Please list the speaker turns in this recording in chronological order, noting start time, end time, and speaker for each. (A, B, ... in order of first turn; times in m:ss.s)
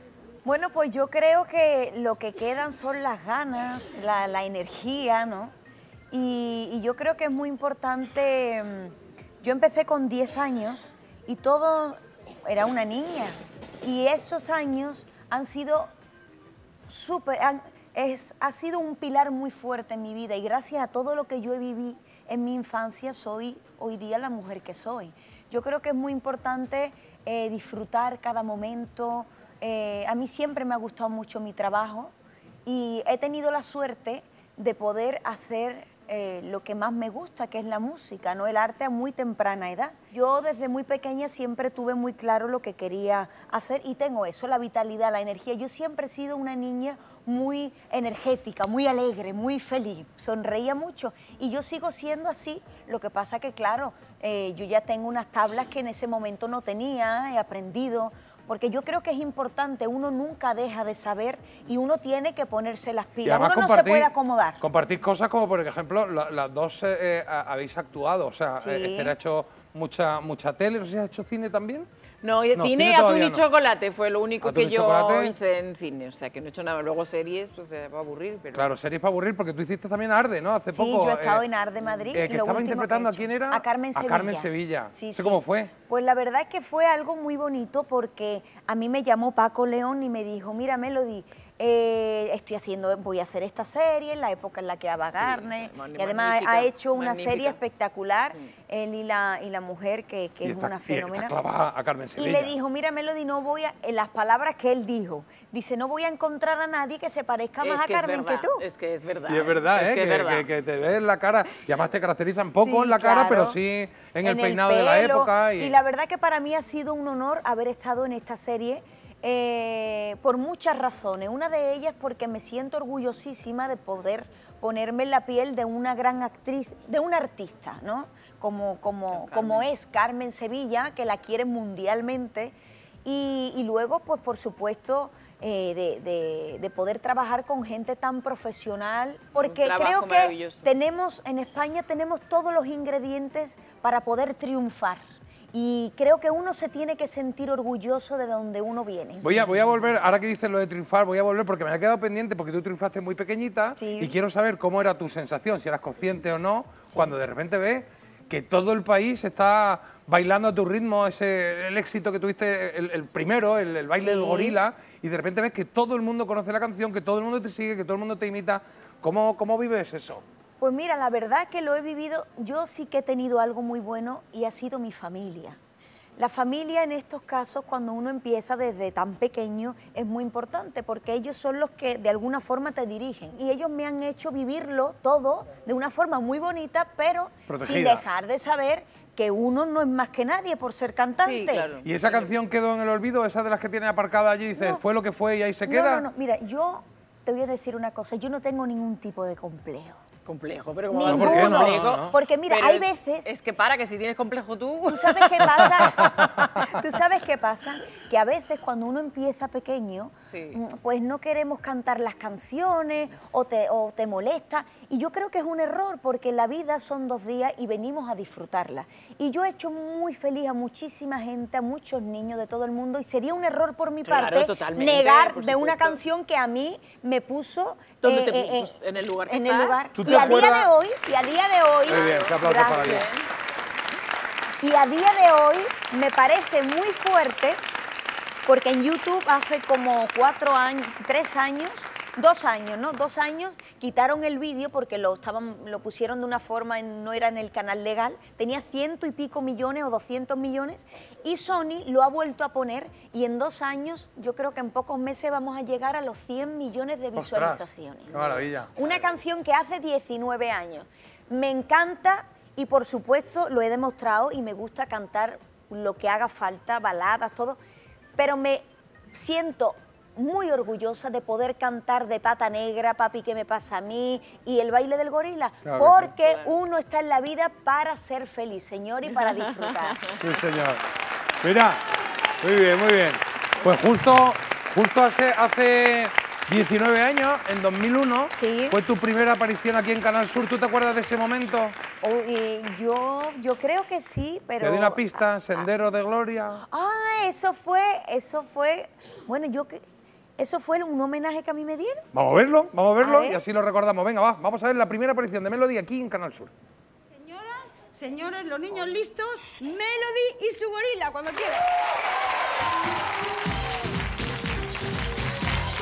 0:00.4-0:05.5 A
0:06.1-0:15.9 A
0:16.9-0:32.1 A
0:32.6-1:04.6 A
1:03.2-1:11.9 B
1:08.6-1:09.1 A
1:12.2-1:18.7 C
1:12.5-1:13.4 B
1:14.4-1:15.3 B
1:18.5-1:21.4 B
1:20.7-1:41.4 A
1:22.1-1:25.7 B
1:35.1-1:37.6 C
1:40.4-1:42.5 B
1:42.2-1:48.6 A
1:47.6-1:50.5 C
1:49.3-1:55.8 B
1:52.6-1:53.6 A
1:54.2-2:25.0 A
2:09.1-2:09.7 C
2:19.3-2:20.7 C
2:25.5-2:29.2 A
2:29.2-2:50.2 B
2:33.8-2:34.1 A
2:44.0-2:44.6 A
2:50.6-2:55.6 A
2:56.2-3:11.7 A
3:07.5-3:08.0 B
3:11.2-3:12.3 C
3:11.8-3:16.0 B
3:14.6-3:14.8 A
3:15.6-3:20.0 A
3:20.2-3:26.5 C
3:20.9-3:23.4 A
3:21.0-3:22.2 B
3:24.9-3:53.1 A
3:25.8-3:26.6 B
3:30.3-3:30.6 C
3:44.0-3:46.0 C
3:48.0-3:50.5 C
3:49.9-3:50.7 B
3:51.9-3:53.3 C
3:51.9-3:53.1 B
3:54.6-3:57.6 A
3:58.4-4:27.6 A
4:17.2-4:18.7 B
4:28.2-4:40.0 A
4:35.6-4:36.1 B
4:36.2-4:36.5 C
4:39.2-4:40.2 C
4:40.1-4:40.8 B
4:41.4-4:41.8 B
4:42.4-4:51.8 B
4:48.4-4:48.8 A
4:52.0-4:55.2 A
4:54.6-4:56.6 B
4:56.6-4:59.8 A
5:00.4-5:02.0 A
5:02.1-5:06.5 B
5:03.0-5:03.4 A
5:07.2-5:11.7 D